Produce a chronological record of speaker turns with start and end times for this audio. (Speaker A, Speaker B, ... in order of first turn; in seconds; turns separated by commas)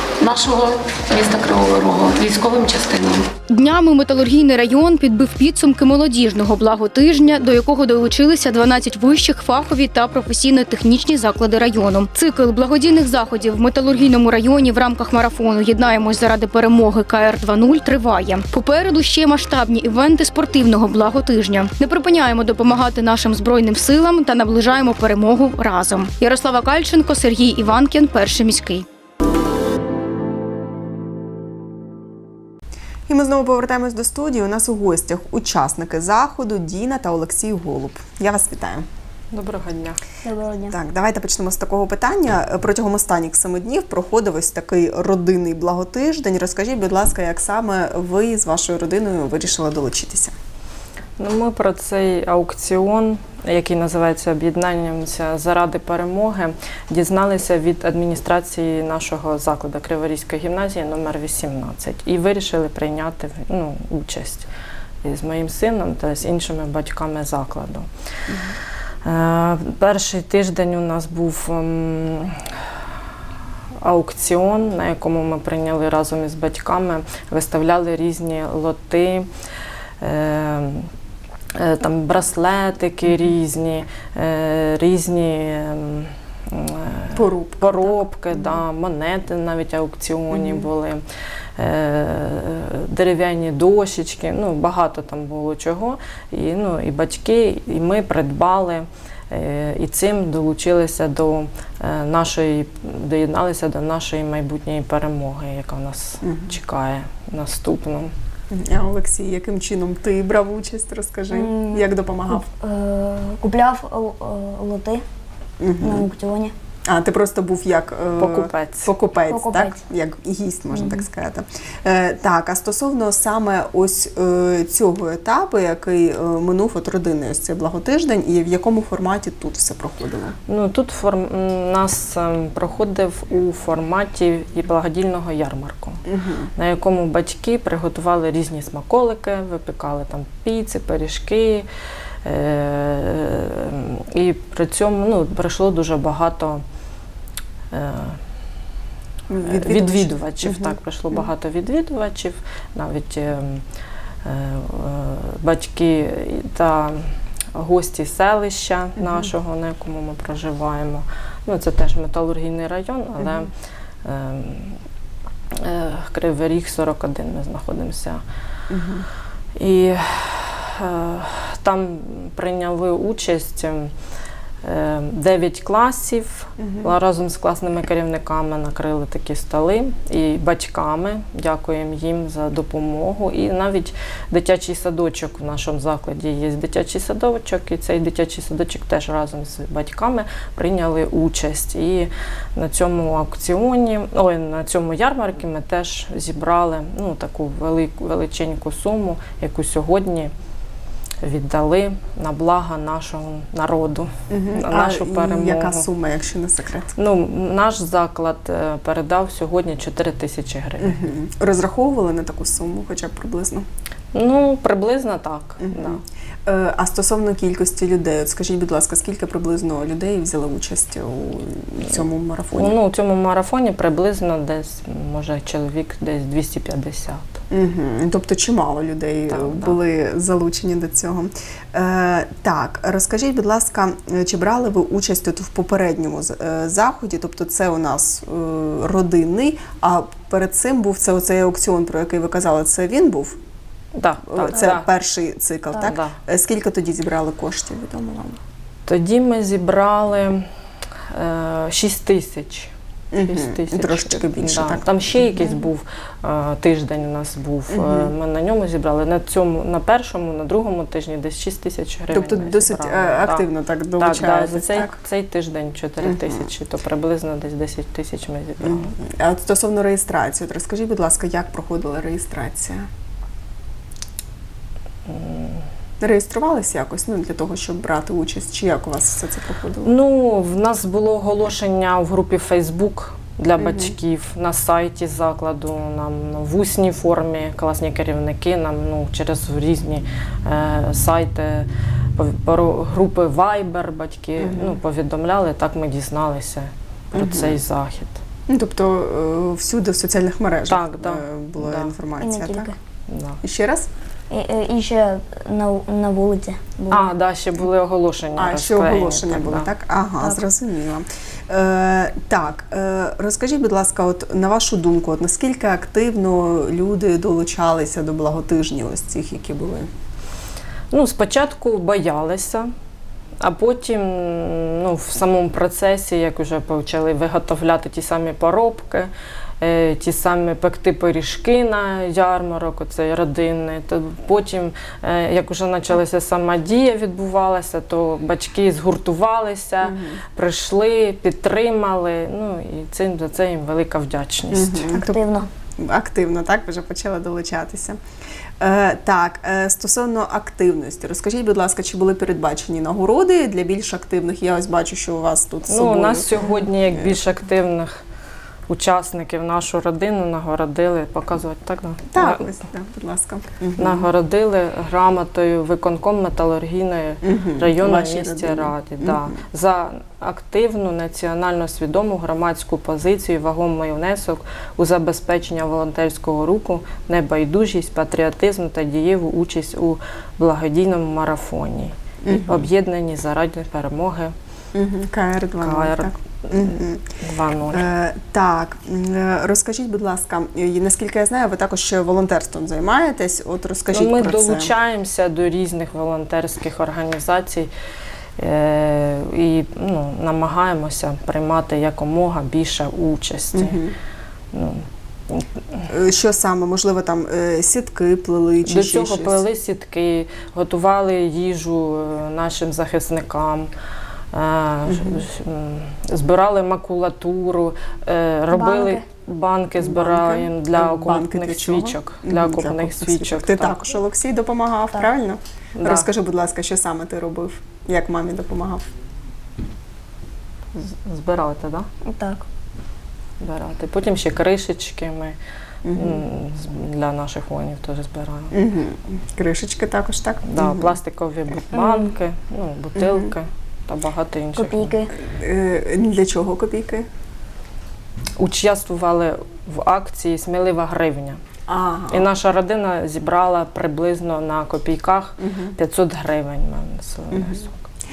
Speaker A: 0.2-3.3, Speaker B: 3.5-28.8, Speaker C: 33.1-38.9, Speaker D: 39.3-40.0, Speaker E: 40.3-40.8, Speaker C: 40.7-50.3, Speaker D: 51.2-64.5, Speaker D: 65.0-67.9, Speaker D: 69.0-72.3, Speaker D: 73.8-79.3, Speaker D: 80.0-80.9, Speaker D: 81.5-91.0, Speaker C: 87.1-88.6, Speaker C: 90.3-90.7, Speaker D: 91.6-108.1, Speaker C: 106.2-106.5, Speaker C: 108.5-112.5, Speaker E: 111.3-111.8, Speaker E: 112.5-115.0, Speaker C: 115.6-116.1, Speaker E: 115.8-116.5, Speaker C: 116.9-130.3, Speaker D: 118.2-118.9, Speaker E: 119.3-119.8, Speaker D: 130.5-136.0, Speaker C: 136.1-136.5, Speaker D: 136.6-141.7, Speaker D: 142.2-146.6, Speaker D: 147.7-148.2, Speaker C: 149.3-150.8, Speaker D: 149.4-153.6, Speaker D: 154.2-163.5, Speaker C: 163.2-163.4, Speaker D: 164.0-164.8, Speaker D: 165.5-168.2, Speaker C: 168.7-169.1, Speaker D: 169.6-173.9, Speaker D: 174.6-200.3, Speaker C: 176.6-176.9, Speaker D: 201.2-205.9, Speaker C: 204.3-206.9, Speaker D: 207.0-211.0, Speaker C: 210.8-213.7, Speaker D: 214.1-216.0, Speaker C: 215.6-222.8, Speaker D: 222.5-227.4, Speaker C: 227.5-243.4, Speaker D: 229.3-229.8, Speaker D: 243.9-244.9, Speaker C: 244.3-248.4, Speaker D: 245.8-246.1, Speaker D: 248.8-250.4, Speaker D: 251.1-263.4, Speaker C: 253.1-255.5, Speaker C: 257.7-258.1, Speaker C: 262.1-264.9, Speaker D: 264.0-268.9, Speaker C: 266.0-266.5, Speaker C: 268.6-272.9, Speaker D: 275.1-275.6, Speaker C: 276.0-279.9, Speaker D: 279.8-298.2, Speaker C: 283.6-283.9, Speaker C: 294.4-294.8, Speaker C: 297.1-297.6, Speaker C: 298.5-302.7, Speaker D: 300.7-301.9, Speaker E: 302.2-302.7, Speaker D: 303.1-303.4, Speaker C: 303.4-303.9, Speaker E: 304.3-306.9, Speaker D: 306.9-309.7, Speaker C: 308.4-319.9, Speaker D: 320.9-322.7, Speaker D: 323.4-329.1, Speaker D: 329.6-344.9, Speaker C: 339.8-340.2, Speaker C: 344.5-348.0, Speaker E: 344.9-345.4, Speaker C: 348.6-357.2, Speaker D: 355.7-358.0, Speaker D: 358.7-362.5, Speaker C: 362.1-364.1, Speaker D: 363.8-384.3, Speaker C: 367.2-369.4, Speaker C: 382.2-382.6, Speaker C: 384.7-387.0, Speaker D: 385.6-387.9, Speaker C: 387.7-394.7, Speaker D: 393.9-397.7, Speaker D: 398.4-403.8, Speaker C: 403.5-403.9, Speaker D: 404.5-405.8, Speaker C: 405.9-409.4, Speaker D: 408.6-413.7, Speaker D: 414.3-423.8, Speaker C: 414.9-415.2, Speaker E: 418.5-419.0, Speaker C: 419.8-428.8, Speaker D: 425.8-426.1, Speaker D: 430.8-431.9, Speaker E: 432.1-432.4, Speaker D: 433.4-435.4, Speaker C: 435.8-436.2, Speaker D: 435.9-438.5, Speaker C: 438.5-441.0, Speaker D: 440.5-444.9, Speaker C: 442.9-443.3, Speaker E: 444.6-445.1, Speaker C: 445.2-447.1, Speaker D: 448.4-451.4, Speaker C: 451.7-452.3, Speaker D: 452.1-457.8, Speaker C: 455.4-455.7, Speaker C: 457.3-457.6